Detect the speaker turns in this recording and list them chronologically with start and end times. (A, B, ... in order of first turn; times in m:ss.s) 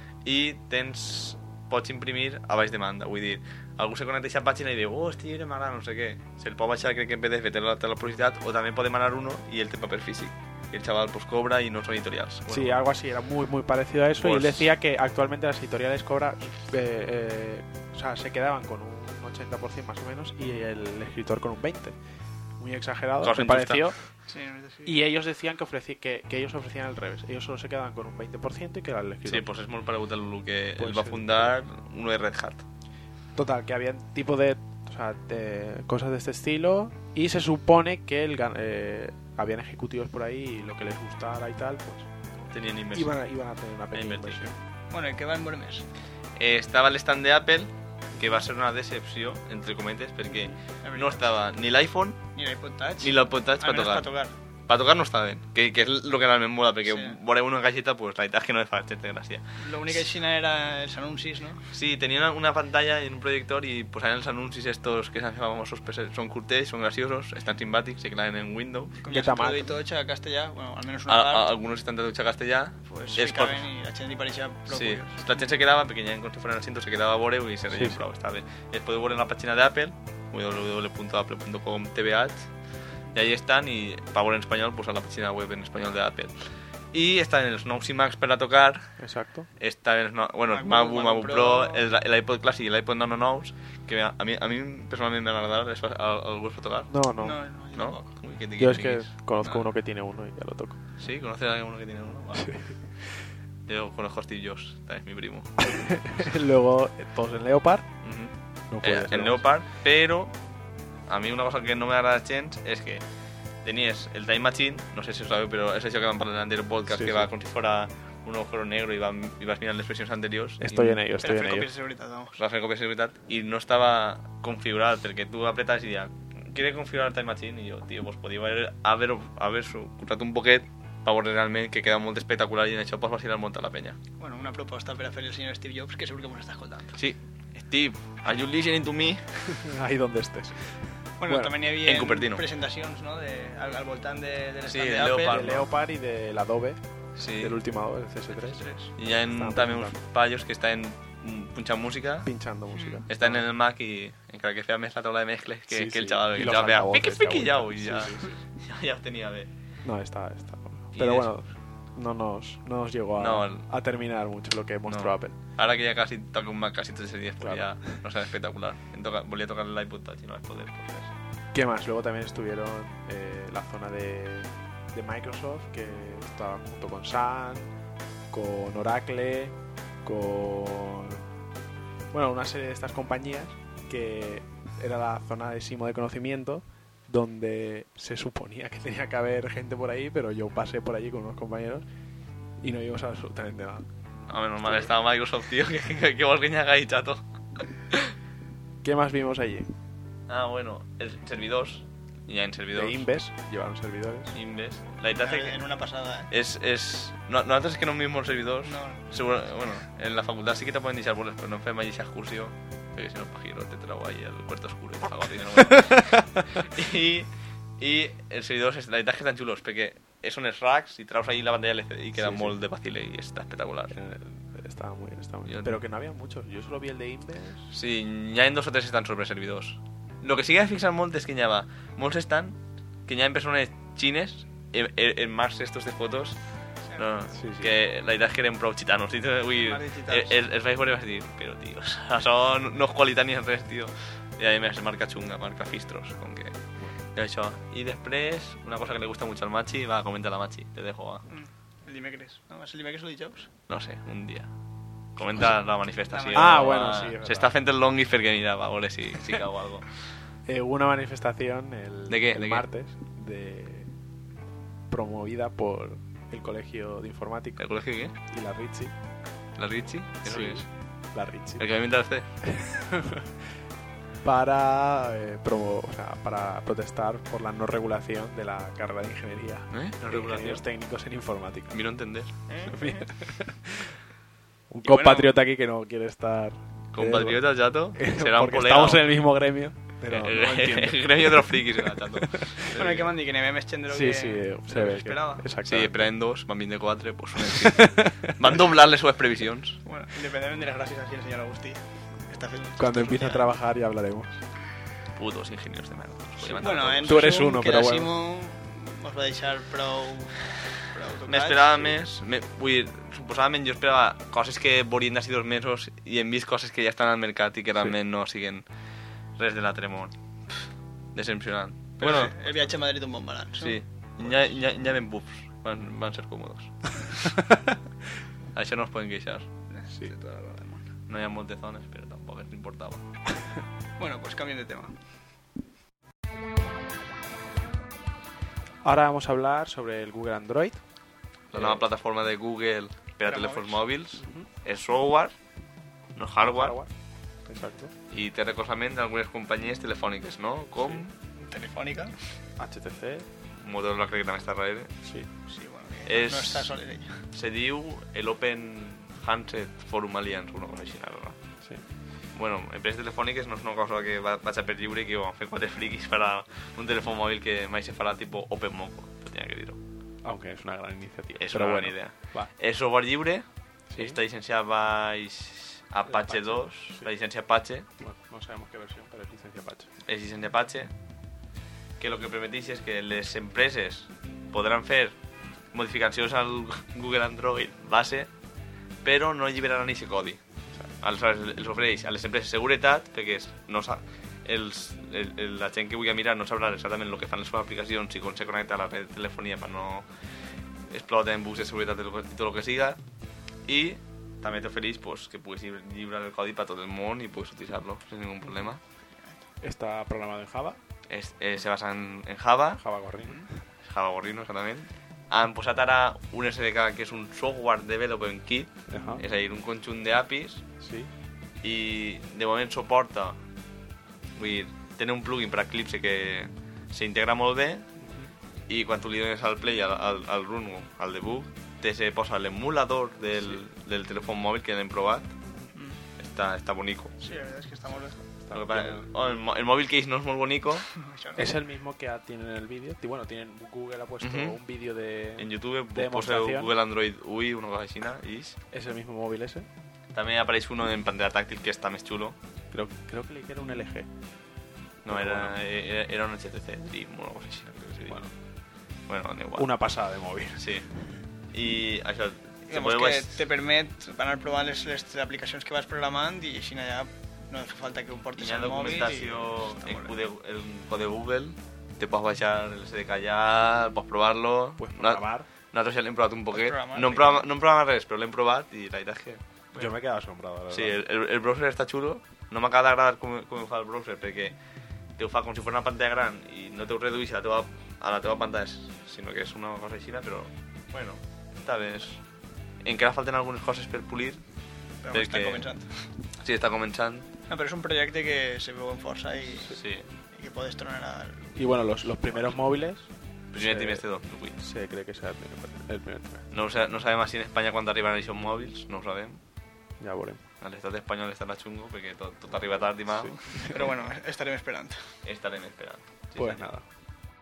0:00.2-0:12.8 A
0:12.5-0:22.0 B
0:14.2-0:14.7 A
0:22.6-0:24.0 B
0:23.2-0:23.9 A
0:24.3-0:25.0 C
0:24.8-0:29.5 B
0:29.2-0:32.6 A
0:30.8-0:31.6 B
0:33.3-0:42.1 B
0:42.5-0:43.1 A
0:42.9-0:44.5 B
0:43.9-0:44.4 A
0:44.9-0:45.8 C
0:46.4-0:52.2 A
0:50.8-0:51.2 C
0:52.3-0:54.3 C
0:53.0-0:54.1 A
0:54.7-0:59.6 A
0:56.8-0:57.2 C
0:59.6-1:01.6 C
1:01.7-1:09.0 A
1:09.0-1:11.5 C
1:09.1-1:09.8 B
1:11.1-1:13.6 A
1:12.9-1:15.4 C
1:14.7-1:22.5 A
1:17.7-1:18.0 B
1:23.1-1:26.3 A
1:26.9-1:29.0 A
1:29.0-1:29.5 B
1:29.6-1:36.9 A
1:30.5-1:31.8 C
1:36.9-1:37.4 B
1:37.2-1:38.1 C
1:37.7-1:39.6 A
1:38.6-1:40.8 B
1:41.0-1:42.6 A
1:42.4-1:42.7 B
1:43.7-1:45.7 A
1:45.7-1:47.9 B
1:48.0-1:50.3 A
1:48.7-1:49.4 B
1:51.1-1:53.0 A
1:53.6-2:01.0 A
1:56.9-1:57.3 B
2:00.6-2:01.7 B
2:01.2-2:02.4 C
2:02.4-2:14.0 A
2:14.2-2:17.0 C
2:17.0-2:19.6 A
2:19.5-2:21.5 B
2:21.2-2:25.5 C
2:21.8-2:22.4 A
2:24.6-2:25.7 A
2:25.2-2:26.8 B
2:27.2-2:27.5 A
2:27.4-2:28.7 B
2:28.3-2:28.9 C
2:28.9-2:32.3 A
2:29.3-2:30.0 B
2:32.2-2:33.4 B
2:32.7-2:33.0 C
2:33.1-2:39.5 A
2:35.7-2:38.3 B
2:39.8-2:45.4 B
2:40.9-2:41.3 A
2:43.2-2:43.7 A
2:44.9-2:51.1 A
2:47.4-2:47.8 B
2:51.5-2:57.7 B
2:58.3-3:01.2 B
3:02.1-3:11.8 B
3:12.6-3:13.9 B
3:14.3-3:18.1 A
3:14.6-3:14.9 B
3:18.8-3:19.7 B
3:20.3-3:23.0 A
3:22.7-3:24.4 B
3:24.3-3:25.6 A
3:25.1-3:26.3 C
3:26.3-3:44.0 A
3:28.6-3:29.1 C
3:42.2-3:42.6 B
3:43.9-3:47.7 B
3:45.4-3:45.8 A
3:47.7-3:56.4 A
3:57.0-4:06.6 A
3:57.3-3:57.7 B
3:59.5-4:00.4 C
4:07.1-4:11.2 A
4:11.3-4:13.5 C
4:13.7-4:14.5 A
4:15.2-4:19.8 A
4:16.1-4:16.8 C
4:16.3-4:17.5 B
4:20.4-4:23.9 B
4:22.1-4:22.7 A
4:24.9-4:27.6 B
4:27.6-4:28.1 A
4:28.3-4:28.9 B
4:29.6-4:30.6 A
4:30.2-4:31.6 B
4:31.6-4:32.3 A
4:32.4-4:33.3 B
4:34.2-4:41.8 B
4:39.7-4:40.6 A
4:41.7-4:42.4 A
4:42.5-4:43.0 C
4:42.6-4:44.0 B
4:44.7-4:52.6 B
4:44.8-4:45.3 C
4:46.9-4:49.0 A
4:50.1-4:53.1 A
4:52.7-4:55.4 C
4:53.9-4:56.1 B
4:55.6-4:59.8 A
4:57.5-4:58.2 B
4:59.8-5:03.5 C
5:02.8-5:04.4 B
5:05.2-5:07.3 A
5:06.4-5:08.1 B
5:06.6-5:12.0 C
5:11.3-5:18.6 A
5:19.4-5:20.1 A
5:21.1-5:22.4 A
5:22.0-5:23.8 C
5:23.6-5:27.2 A
5:28.5-5:29.5 A
5:29.7-5:30.9 C
5:31.1-5:33.0 A
5:34.0-5:34.9 C
5:38.8-5:40.8 B
5:41.5-5:45.3 A
5:41.5-5:41.8 B
5:43.2-5:43.8 C
5:44.2-5:44.5 B
5:46.2-5:46.8 A
5:46.4-5:46.9 B
5:47.4-5:47.9 B
5:48.1-5:51.1 A
5:51.4-5:52.2 C
5:52.6-5:53.3 B
5:53.6-5:54.9 A
5:55.0-5:55.3 B
5:55.5-5:57.2 C
5:56.1-5:56.7 A
5:57.3-6:01.4 A
6:02.3-6:09.8 A
6:10.2-6:12.5 B
6:11.4-6:13.4 A
6:13.9-6:14.2 B
6:14.0-6:17.9 A
6:16.1-6:17.1 B
6:18.0-6:19.9 B
6:20.0-6:20.9 A
6:22.0-6:25.2 A
6:25.7-6:28.3 A
6:29.0-6:30.4 A
6:31.0-6:40.1 A
6:40.9-6:43.0 A
6:43.6-6:48.8 A
6:49.6-6:50.8 B
6:51.1-6:52.8 A
6:52.8-6:53.5 B
6:53.8-7:00.6 A
6:58.9-6:59.2 B
7:00.8-7:01.1 B
7:01.6-7:03.4 A
7:04.4-7:07.8 A
7:08.0-7:08.3 B
7:08.7-7:15.3 A
7:15.7-7:16.0 C
7:16.2-7:17.1 A
7:17.2-7:18.2 C
7:18.4-7:19.1 B
7:18.5-7:20.9 A
7:20.9-7:21.5 C
7:21.4-7:26.7 B
7:24.2-7:24.6 A
7:25.4-7:28.6 A
7:28.7-7:29.7 B
7:30.1-7:32.4 A
7:32.7-7:34.1 B
7:35.0-7:38.2 A
7:35.1-7:35.5 B
7:38.0-7:38.3 B
7:39.1-7:39.7 A
7:39.6-7:40.8 B
7:40.6-7:40.9 A
7:41.5-7:43.4 A
7:42.7-7:50.1 C
7:48.4-7:59.9 A
7:54.8-7:55.5 B
7:56.5-7:57.4 C
7:59.7-8:01.0 B
8:00.7-8:04.5 A
8:05.2-8:12.2 A
8:12.8-8:14.4 A
8:15.0-8:16.0 C
8:15.1-8:15.7 A
8:16.4-8:17.3 A
8:17.5-8:19.8 C
8:19.7-8:20.0 A
8:20.3-8:21.7 C
8:21.6-8:24.0 B
8:23.5-8:24.6 A
8:24.6-8:26.4 B
8:26.5-8:29.4 A
8:30.0-8:30.4 B
8:30.6-8:34.0 A
8:33.1-8:33.6 B
8:33.6-8:35.0 C
8:35.2-8:36.6 A
8:36.4-8:36.8 B